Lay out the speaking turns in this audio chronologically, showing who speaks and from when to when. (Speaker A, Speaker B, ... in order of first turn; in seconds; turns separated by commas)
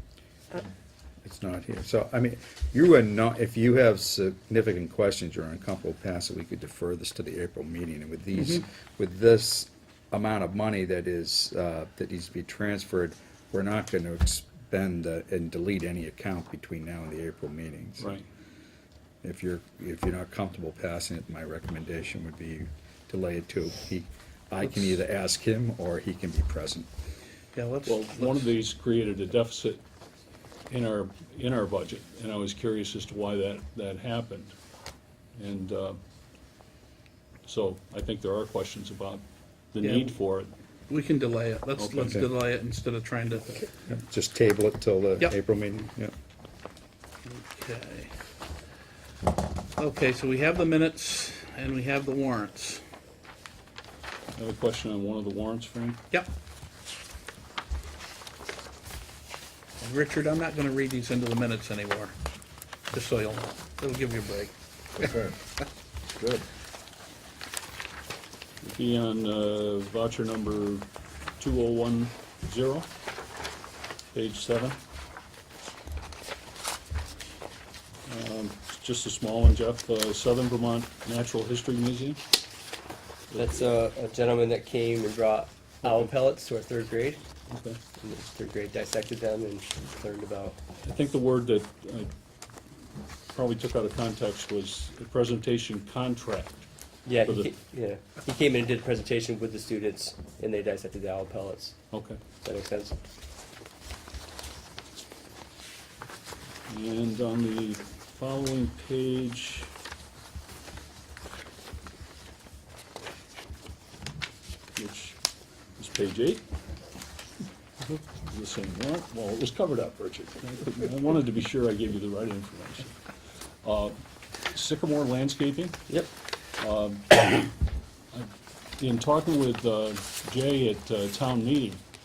Speaker A: 1.2-18.2, Speaker B: 18.0-18.3, Speaker A: 19.2-26.9, Speaker C: 27.5-28.4, Speaker B: 27.8-29.8, Speaker B: 30.7-34.5, Speaker B: 35.4-36.0, Speaker B: 37.4-40.5, Speaker C: 39.8-40.1, Speaker C: 40.9-43.6, Speaker B: 41.8-42.2, Speaker A: 43.9-46.1, Speaker C: 47.2-48.1, Speaker C: 49.8-52.8, Speaker B: 54.4-56.0, Speaker C: 59.8-62.1, Speaker C: 62.9-64.5, Speaker B: 68.6-70.9, Speaker B: 71.4-72.9, Speaker B: 74.1-74.8, Speaker B: 78.1-82.2, Speaker B: 83.3-83.6, Speaker D: 83.3-87.2, Speaker B: 85.8-86.1, Speaker B: 87.5-87.8, Speaker D: 88.0-90.6, Speaker B: 90.8-92.1, Speaker B: 93.3-96.7, Speaker D: 97.0-101.9, Speaker B: 97.2-97.5, Speaker B: 101.9-102.2, Speaker D: 102.4-102.9, Speaker B: 106.7-109.7, Speaker B: 114.7-115.2, Speaker B: 115.8-116.5, Speaker B: 118.3-123.0, Speaker B: 123.6-124.0, Speaker B: 124.5-125.8, Speaker B: 126.6-127.5, Speaker B: 128.1-131.8